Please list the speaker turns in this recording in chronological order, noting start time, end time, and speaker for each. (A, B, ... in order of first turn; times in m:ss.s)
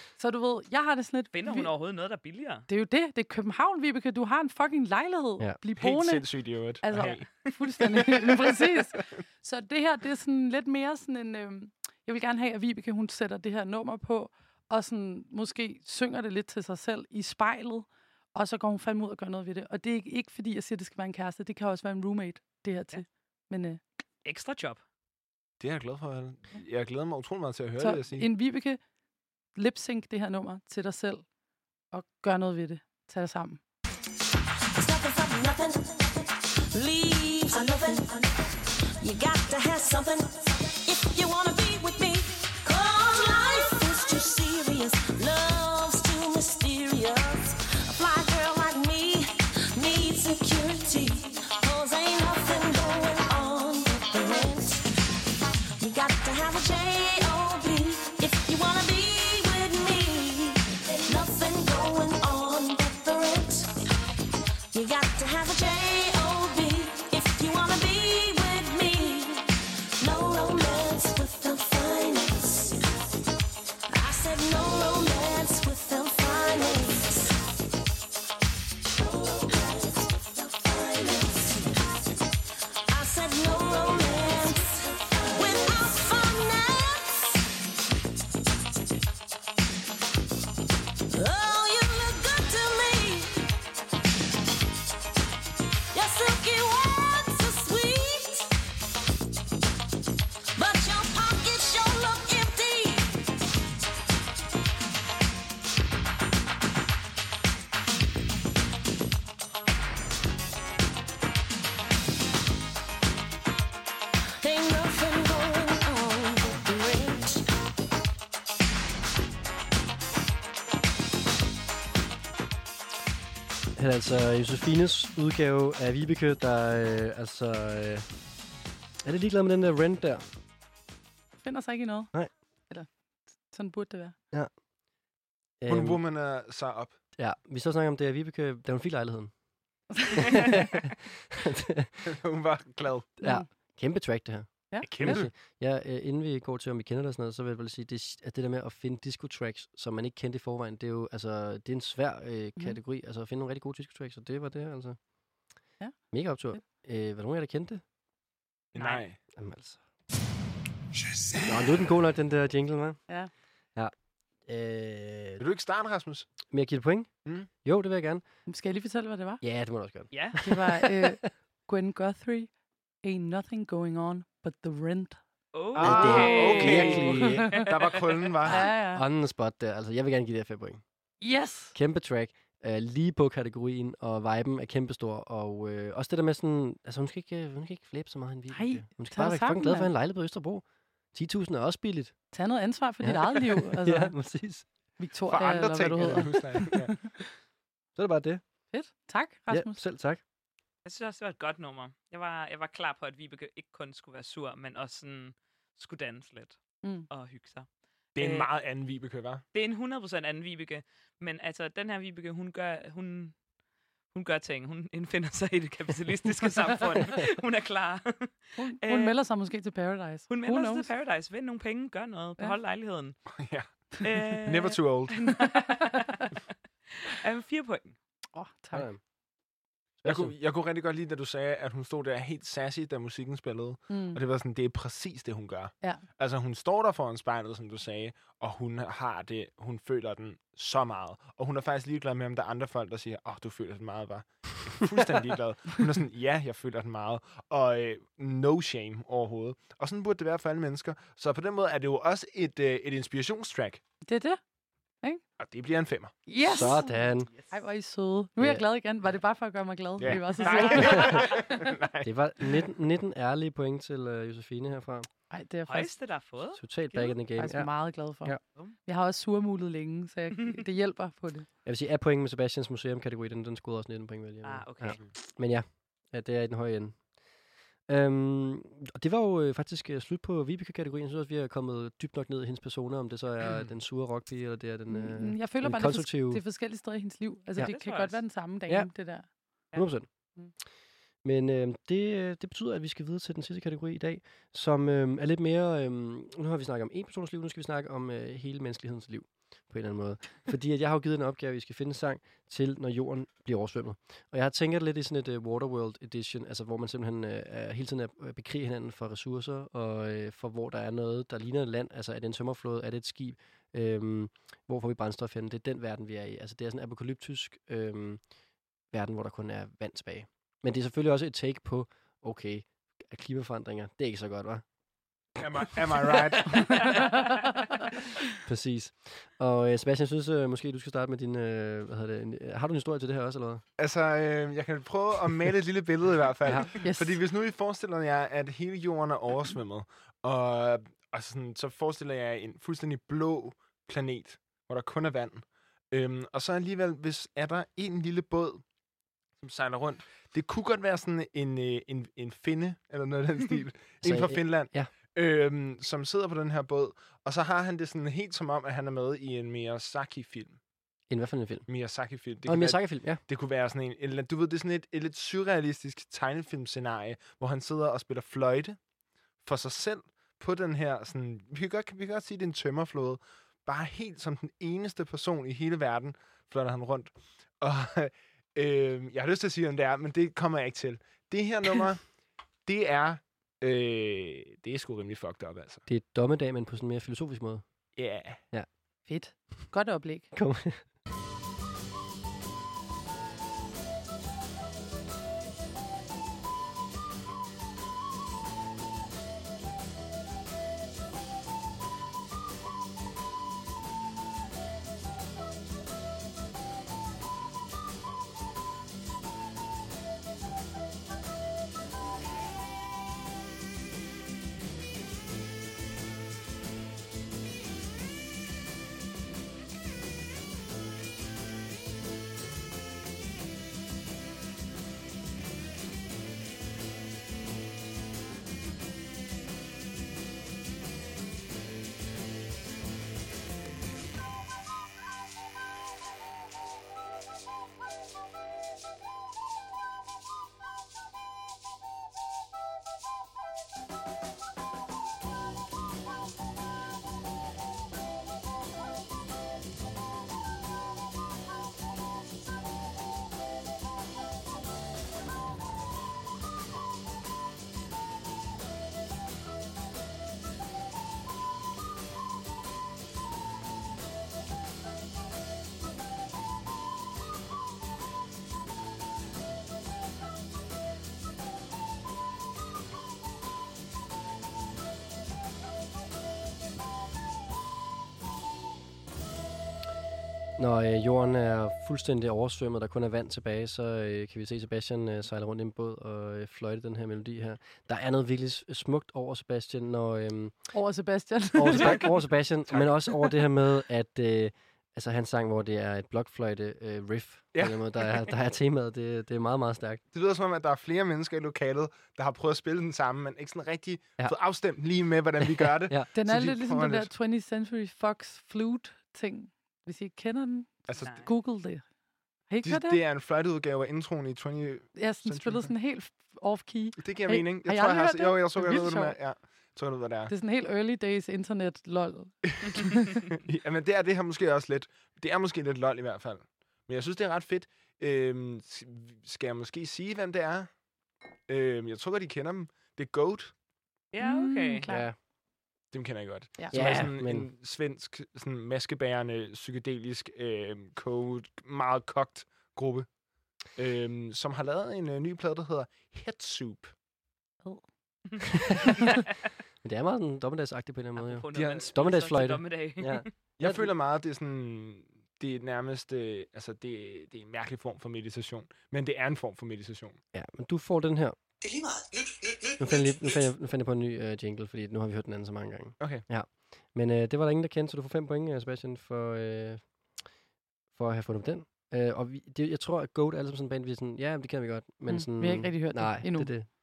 0:00.2-0:01.7 A
0:01.3-0:02.7 B
0:02.7-0:06.2 A
0:05.8-0:07.3 C
0:06.8-0:23.8 A
0:07.0-0:07.5 B
0:08.0-0:08.5 C
0:24.2-0:24.8 B
0:25.6-0:28.3 C
0:27.8-0:28.8 A
0:29.5-0:31.2 A
0:31.9-0:33.6 A
0:34.7-0:38.4 D
0:39.0-0:54.9 D
0:55.8-1:03.7 D
1:04.7-1:12.8 D
1:13.9-1:17.3 D
1:19.0-1:21.7 D
1:22.9-1:27.4 D
1:31.1-1:33.5 D
1:35.9-1:38.5 D
1:40.5-1:43.2 D
1:54.4-1:57.5 D
2:03.8-2:08.0 E
2:09.0-2:10.2 E
2:11.4-2:12.1 A
2:13.5-2:14.2 A
2:15.6-2:16.0 E
2:15.7-2:17.0 C
2:17.2-2:19.3 E
2:20.1-2:22.0 E
2:22.0-2:23.1 C
2:23.2-2:35.0 E
2:23.2-2:23.5 A
2:24.7-2:25.2 A
2:24.8-2:25.3 C
2:36.1-2:37.8 E
2:38.7-2:39.2 C
2:38.8-2:39.0 B
2:39.4-2:39.8 E
2:41.4-2:43.0 E
2:44.4-2:45.4 E
2:45.4-2:46.3 C
2:46.5-2:47.1 E
2:47.6-2:48.2 E
2:48.5-2:49.4 A
2:49.4-2:51.3 E
2:50.1-2:50.4 B
2:50.4-2:52.5 A
2:53.0-2:55.2 A
2:55.5-2:58.1 B
2:55.8-2:58.7 C
2:55.8-2:57.6 E
2:58.4-2:59.0 A
2:58.5-3:00.8 E
3:01.2-3:01.7 A
3:01.7-3:12.1 E
3:08.5-3:09.9 A
3:12.3-3:14.2 A
3:13.0-3:14.6 E
3:15.0-3:17.1 A
3:15.3-3:17.0 C
3:18.0-3:18.4 E
3:18.7-3:19.8 A
3:19.5-3:20.2 E
3:20.8-3:28.5 B
3:28.2-3:29.4 C
3:29.5-3:33.4 B
3:34.1-3:39.1 B
3:38.6-3:40.9 A
3:40.3-3:43.2 B
3:43.3-3:45.3 C
3:44.0-3:46.3 B
3:47.0-3:48.0 B
3:48.3-3:48.9 A
3:48.7-3:49.0 E
3:50.0-3:50.3 E
3:50.0-4:13.8 C
3:53.9-3:54.2 A
4:14.0-4:14.4 A
4:15.4-4:16.1 C
4:16.3-4:21.6 A
4:16.5-4:17.3 E
4:18.4-4:18.6 E
4:20.0-4:22.1 C
4:20.4-4:21.3 B
4:20.8-4:21.1 E
4:22.0-4:25.1 E
4:25.3-4:25.9 A
4:25.7-4:26.6 B
4:26.6-4:28.4 E
4:26.9-4:31.5 A
4:31.6-4:37.1 E
4:34.4-4:35.0 B
4:37.9-4:46.4 E
4:44.9-4:49.3 A
4:47.6-4:48.2 B
4:49.7-4:50.1 E
4:51.2-5:18.2 E
5:18.9-5:24.6 E
5:25.4-5:27.3 C
5:28.4-5:33.6 E
5:33.8-5:48.6 C
5:36.4-5:36.7 E
5:36.7-5:37.2 A
5:49.4-6:00.6 C
5:54.0-5:54.9 E
6:01.1-6:01.7 E
6:01.7-6:08.8 C
6:02.4-6:03.2 E
6:09.4-6:22.1 C
6:22.6-6:25.8 C
6:25.8-6:27.6 E
6:28.0-6:28.4 C
6:29.1-6:30.3 A
6:30.3-6:30.8 E
8:00.6-8:10.7 E
8:10.7-8:12.1 A
8:11.5-8:20.0 E
8:11.7-8:12.0 C
8:12.7-8:13.1 C
8:17.5-8:17.8 C
8:20.1-8:27.1 C
8:25.4-8:26.1 E
8:26.1-8:31.8 A
8:31.0-8:31.3 B
8:32.5-8:33.0 A
8:32.6-8:35.7 C
8:34.9-8:39.2 A
8:37.0-8:40.3 C
8:40.3-8:43.0 A
8:42.5-8:50.7 C
8:51.5-8:53.5 C
8:54.1-8:54.8 B
8:54.2-8:55.1 A
8:54.9-8:55.2 E
8:55.9-9:03.1 C
8:56.7-8:57.5 E
9:03.7-9:06.9 C
9:08.7-9:09.0 E
9:09.8-9:13.9 E
9:11.2-9:13.3 B
9:11.5-9:11.9 C
9:13.6-9:20.2 C
9:20.3-9:21.4 E
9:22.8-9:29.9 E
9:26.0-9:26.2 C
9:30.9-9:36.7 E
9:35.1-9:36.5 A